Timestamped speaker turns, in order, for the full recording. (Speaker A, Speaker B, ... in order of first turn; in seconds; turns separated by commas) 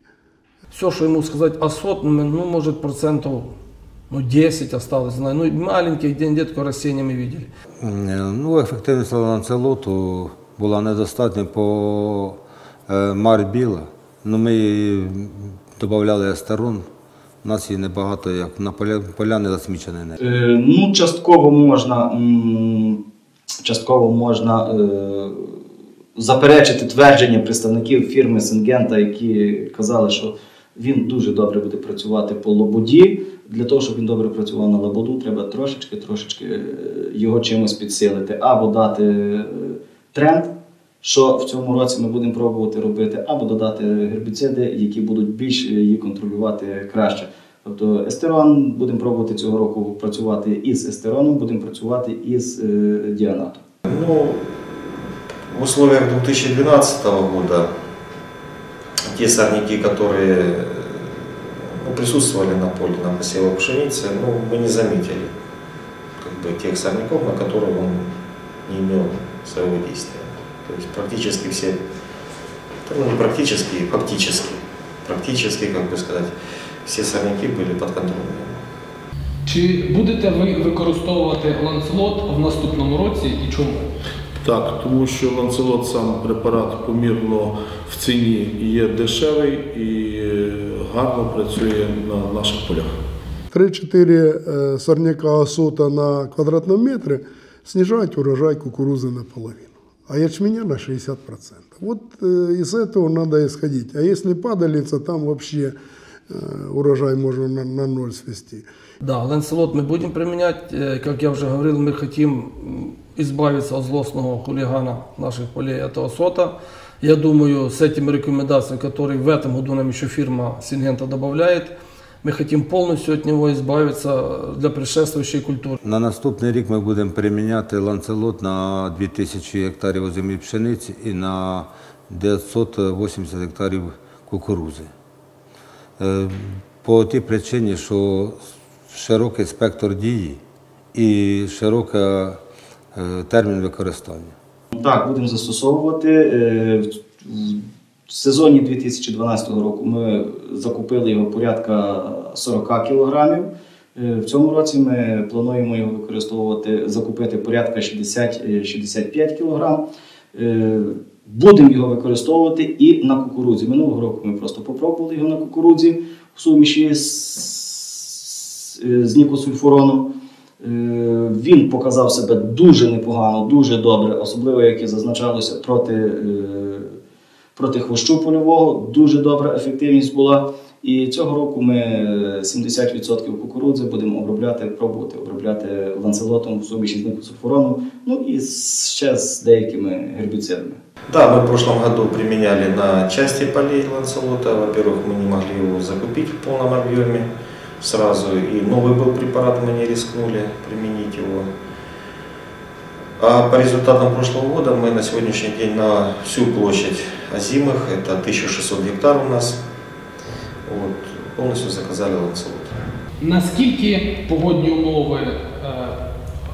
Speaker A: 0.7-3.5, Speaker A: 4.1-7.5, Speaker B: 7.8-16.9, Speaker B: 17.4-20.2, Speaker C: 20.2-23.0, Speaker C: 23.6-25.6, Speaker C: 26.1-40.5, Speaker C: 41.0-53.6, Speaker D: 53.8-57.7, Speaker D: 59.1-65.3, Speaker D: 66.2-68.1, Speaker D: 68.7-71.8, Speaker D: 72.8-76.3, Speaker D: 76.8-78.6, Speaker E: 79.5-83.8, Speaker F: 84.4-92.9, Speaker G: 93.5-105.7, Speaker G: 106.3-108.6, Speaker A: 109.0-125.8, Speaker B: 125.8-134.9, Speaker B: 136.0-140.4, Speaker B: 140.9-142.4, Speaker B: 142.9-144.3, Speaker C: 144.7-170.1, Speaker C: 170.6-176.9, Speaker C: 177.6-190.8, Speaker D: 191.1-197.3, Speaker D: 197.8-201.5, Speaker D: 203.2-209.6, Speaker D: 210.7-212.7, Speaker E: 213.2-216.0